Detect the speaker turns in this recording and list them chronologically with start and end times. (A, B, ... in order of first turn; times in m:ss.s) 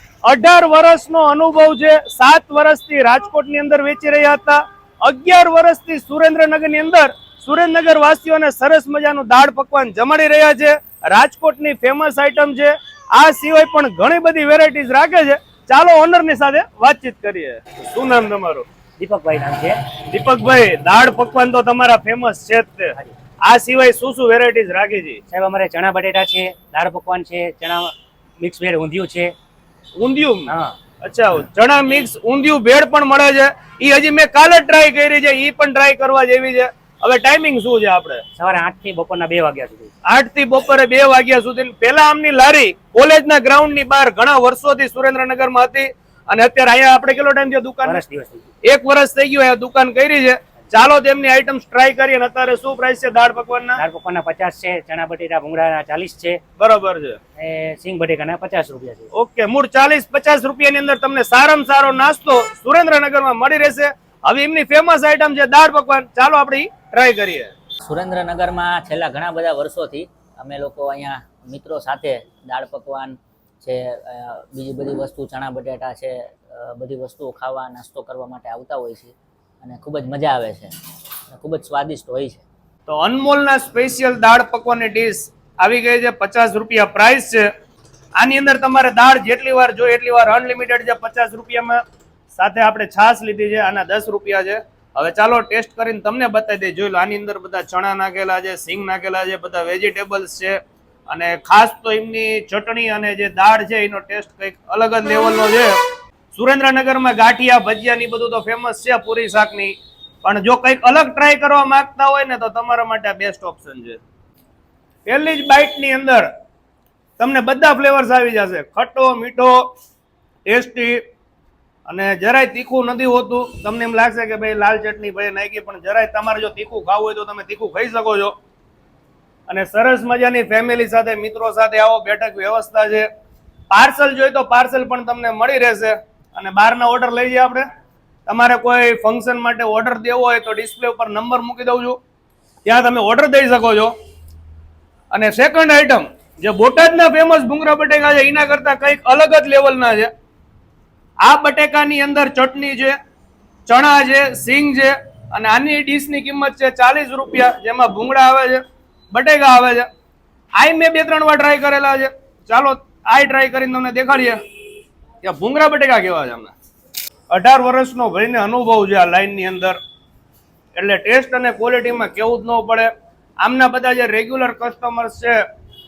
0:00.2-0:18.7 A
0:19.0-0:19.8 B
0:20.1-0:25.2 A
0:25.3-0:29.3 B
0:30.0-0:38.2 A
0:30.5-0:30.7 B
0:38.4-0:39.9 B
0:40.1-0:48.0 A
0:47.8-0:48.5 B
0:48.6-0:53.8 A
0:53.8-0:56.4 B
0:56.6-0:57.2 A
0:57.4-0:59.1 B
0:59.1-1:07.5 A
1:07.9-1:20.7 C
1:21.3-1:22.4 C
1:22.9-1:27.5 A
1:28.2-1:31.8 A
1:32.3-1:45.8 A
1:46.3-1:54.0 A
1:55.1-1:56.3 A
1:57.2-1:59.6 A
2:00.5-2:01.0 A
2:01.9-2:08.3 A
2:09.5-2:13.1 A
2:13.7-2:17.7 A
2:18.3-2:22.0 A
2:22.7-2:23.9 A
2:25.1-2:30.1 A
2:31.2-2:33.0 A
2:33.7-2:39.9 A
2:40.6-2:44.4 A
2:45.2-2:46.5 A
2:47.3-2:49.8 A
2:50.8-2:55.4 A